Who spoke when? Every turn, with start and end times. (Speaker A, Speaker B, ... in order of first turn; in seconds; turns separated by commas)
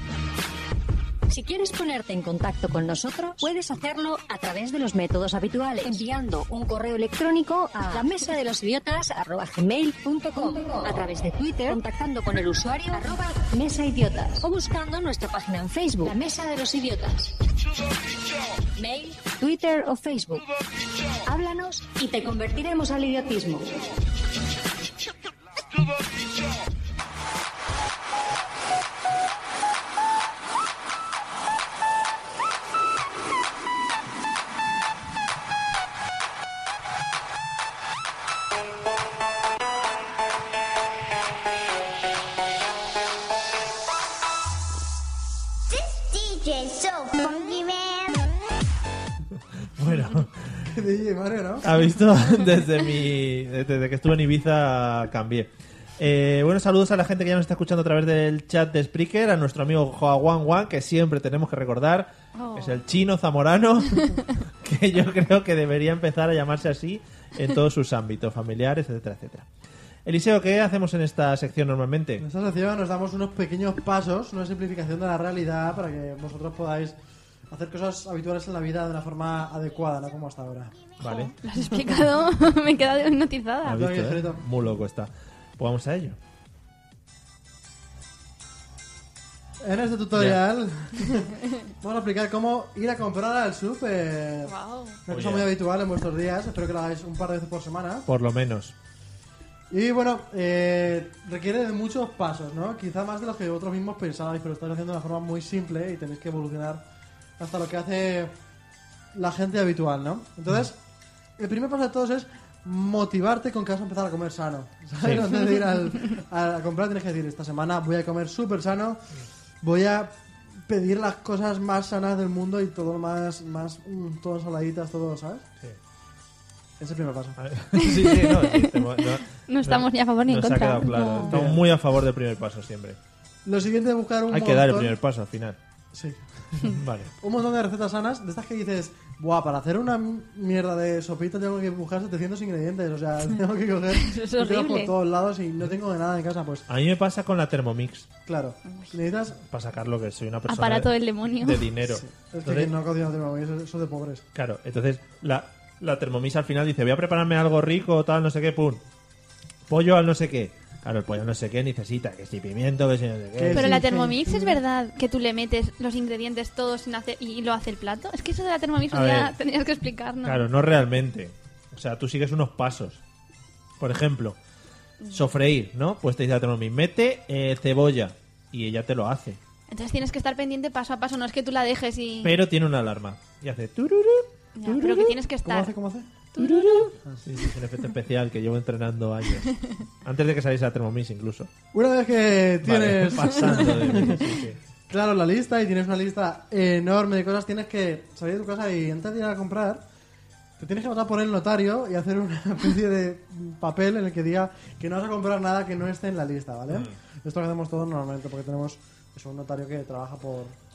Speaker A: 1.3-17.4, Speaker A: 18.8-20.4, Speaker A: 21.3-23.8, Speaker B: 45.7-48.3, Speaker C: 49.8-50.6, Speaker D: 50.6-51.7, Speaker C: 51.6-69.5, Speaker E: 62.4-62.8, Speaker C: 70.0-72.2, Speaker D: 72.2-77.0, Speaker D: 77.5-80.8, Speaker C: 81.0-81.3, Speaker E: 81.0-83.8, Speaker C: 83.6-86.2, Speaker D: 83.7-84.4, Speaker D: 89.6-94.5, Speaker C: 90.1-90.4, Speaker E: 94.5-95.0, Speaker D: 95.1-98.1, Speaker C: 95.1-95.5, Speaker C: 98.1-98.8, Speaker D: 99.7-106.8, Speaker D: 107.4-108.3, Speaker D: 109.1-110.8, Speaker D: 111.4-119.0, Speaker C: 115.0-115.3, Speaker D: 119.6-120.2, Speaker D: 120.7-125.5, Speaker D: 126.8-127.4, Speaker C: 127.4-133.0, Speaker E: 127.8-131.4, Speaker D: 131.2-131.6, Speaker D: 133.4-134.9, Speaker C: 134.3-135.6, Speaker D: 135.9-146.7, Speaker C: 136.7-137.1, Speaker E: 143.9-144.9, Speaker C: 146.7-148.1, Speaker D: 148.3-149.4, Speaker C: 149.4-152.7, Speaker E: 150.5-151.7, Speaker D: 151.8-154.2, Speaker C: 154.3-158.8, Speaker C: 159.7-163.8, Speaker D: 163.4-164.6, Speaker E: 163.5-170.4, Speaker C: 168.9-169.3, Speaker C: 170.2-173.0, Speaker C: 173.8-174.4, Speaker E: 175.0-175.3, Speaker C: 175.1-179.4, Speaker E: 179.7-182.4, Speaker C: 182.2-185.2, Speaker E: 184.6-185.7, Speaker D: 185.4-186.1, Speaker E: 186.3-186.9, Speaker C: 186.4-191.5, Speaker D: 191.7-194.2, Speaker C: 192.6-194.6, Speaker D: 194.9-199.8, Speaker D: 200.6-210.6